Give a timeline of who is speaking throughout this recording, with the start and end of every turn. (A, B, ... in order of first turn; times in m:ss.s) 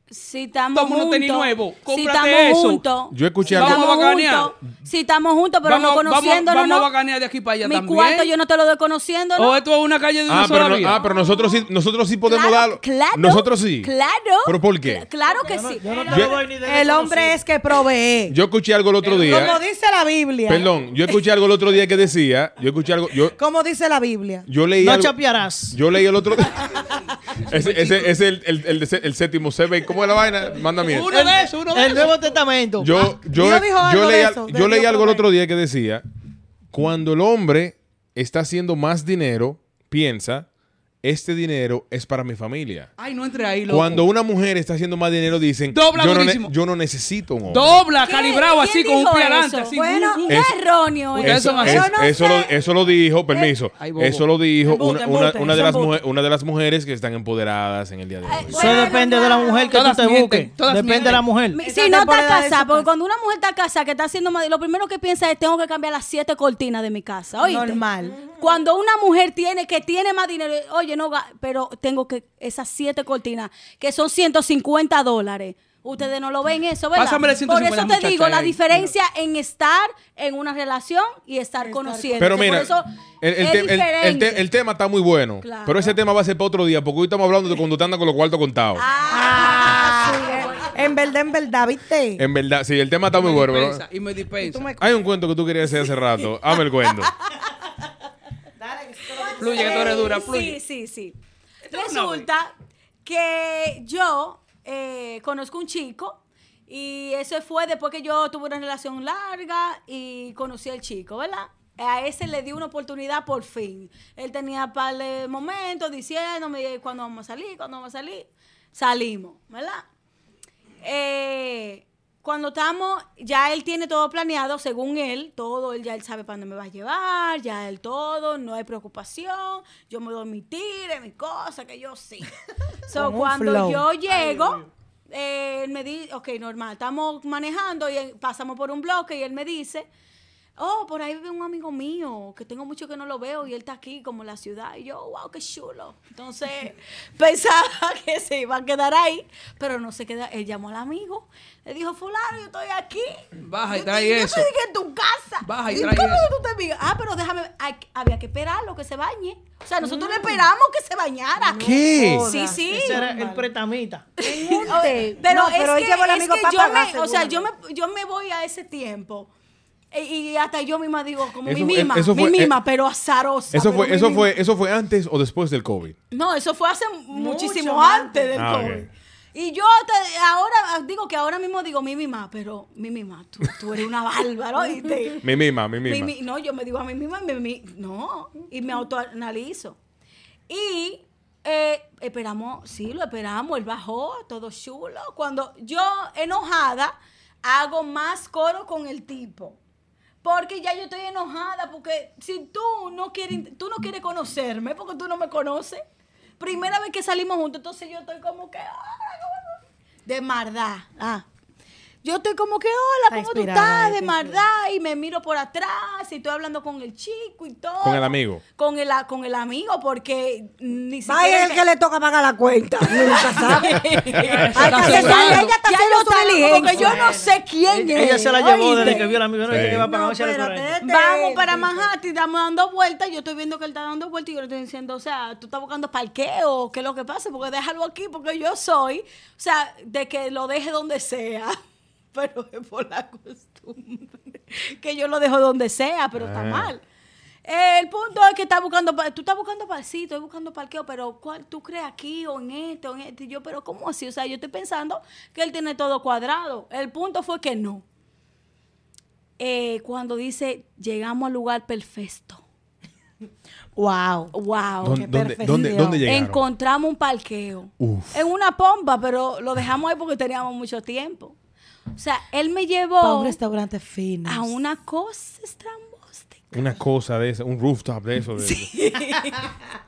0:00.1-0:06.9 A
0:00.7-0:02.9 B
0:03.1-0:04.1 C
0:03.5-0:04.6 B
0:05.6-0:08.3 B
0:07.6-0:09.6 A
0:09.4-0:11.0 B
0:10.3-0:13.9 C
0:10.8-0:11.7 A
0:12.2-0:16.3 A
0:14.4-0:15.1 C
0:15.3-0:17.4 D
0:16.1-0:16.4 C
0:16.4-0:18.4 E
0:18.3-0:19.6 C
0:19.0-0:20.7 E
0:20.5-0:23.4 C
0:23.4-0:24.5 E
0:24.5-0:26.7 C
0:24.8-0:25.8 D
0:27.4-0:31.2 C
0:30.9-0:32.2 B
0:31.1-0:32.9 D
0:32.8-0:36.0 C
0:33.0-0:35.3 E
0:36.7-0:40.5 C
0:41.0-0:42.9 C
0:43.0-0:44.1 B
0:43.7-0:47.8 C
0:45.7-0:46.5 B
0:47.5-0:50.2 B
0:48.0-0:52.1 A
0:49.8-0:50.3 F
0:50.3-0:50.5 C
0:51.1-0:51.9 B
0:51.2-0:58.9 C
0:51.5-0:52.5 F
0:53.8-0:54.3 B
0:54.7-0:55.9 E
0:58.2-1:00.0 A
0:58.5-1:01.6 D
0:59.7-1:01.3 B
1:01.5-1:24.4 A
1:01.6-1:02.9 E
1:07.4-1:08.2 E
1:17.0-1:18.9 B
1:21.6-1:22.6 E
1:22.2-1:28.8 C
1:25.4-1:26.0 A
1:28.8-1:30.8 A
1:29.1-1:32.2 E
1:32.2-1:33.8 C
1:33.1-1:34.7 B
1:34.4-1:35.0 E
1:34.8-1:37.1 C
1:36.9-1:37.5 A
1:38.6-1:40.2 E
1:39.1-1:41.2 A
1:39.4-1:40.6 B
1:41.7-1:42.3 B
1:41.7-1:42.5 A
1:43.0-1:59.8 A
2:00.8-2:12.3 A
2:12.9-2:19.9 A
2:12.9-2:13.9 E
2:20.6-2:43.1 A
2:33.4-2:34.5 B
2:35.4-2:36.3 B
2:39.9-2:40.2 E
2:39.9-2:40.3 F
2:41.4-2:42.6 F
2:41.6-2:44.1 D
2:41.8-2:43.5 E
2:41.8-2:42.0 C
2:44.2-2:47.5 F
2:44.2-2:49.3 A
2:49.9-2:54.3 A
2:51.4-2:52.6 C
2:53.5-2:56.0 C
2:56.1-3:05.2 A
2:57.1-2:58.7 E
2:58.4-2:58.9 C
3:05.2-3:06.1 C
3:05.8-3:09.8 A
3:10.5-3:19.6 A
3:20.2-3:25.8 A
3:26.4-3:31.2 A
3:32.0-3:41.6 A
3:33.1-3:34.4 E
3:37.8-3:38.4 C
3:41.0-3:47.3 F
3:42.9-4:01.6 A
3:44.3-3:45.5 B
3:46.6-3:47.1 E
3:47.8-3:50.8 D
3:48.0-3:49.2 F
3:49.5-3:49.9 C
3:49.8-3:51.8 F
4:02.1-4:06.8 A
4:06.2-4:06.7 C
4:07.4-4:17.8 A
4:19.4-4:22.4 A
4:23.8-4:26.0 E
4:24.3-4:25.0 A
4:24.8-4:26.4 C
4:26.0-4:31.4 A
4:27.8-4:28.3 C
4:31.9-4:33.4 A
4:33.0-4:34.6 E
4:34.3-4:36.6 A
4:36.5-4:38.7 C
4:38.5-4:39.4 A